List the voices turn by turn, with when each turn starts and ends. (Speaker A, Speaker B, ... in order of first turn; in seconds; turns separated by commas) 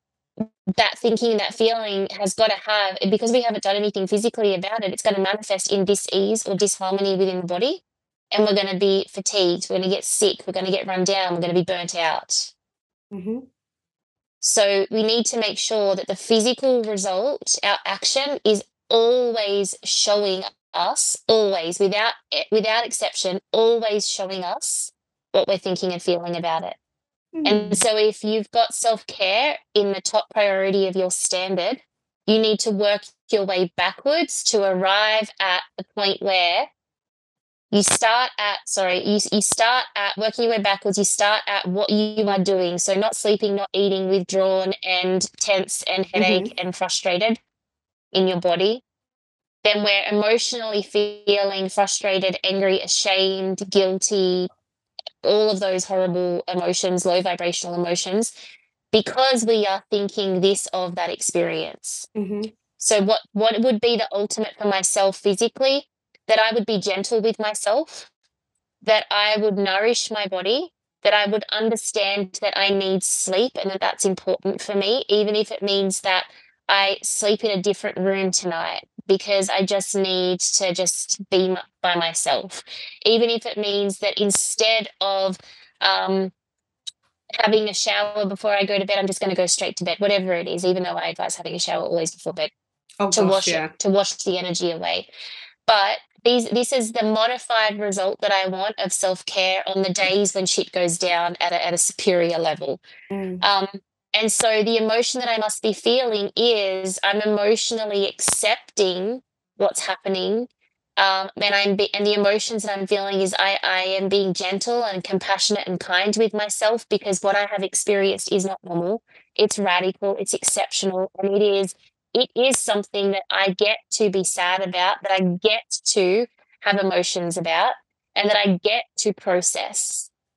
Speaker A: 0.4-12.5, Speaker B: 13.1-13.4, Speaker A: 14.4-26.8, Speaker B: 27.3-27.8, Speaker A: 27.4-36.7, Speaker A: 37.7-47.4, Speaker B: 46.2-46.5, Speaker A: 48.1-48.8, Speaker A: 49.6-54.5, Speaker A: 55.2-58.3, Speaker A: 58.9-62.1, Speaker B: 62.1-62.5, Speaker A: 62.8-68.1, Speaker A: 68.8-86.3, Speaker A: 87.4-92.5, Speaker B: 93.0-93.7, Speaker A: 93.1-95.1, Speaker A: 95.7-102.8, Speaker B: 103.1-103.4, Speaker A: 103.4-130.1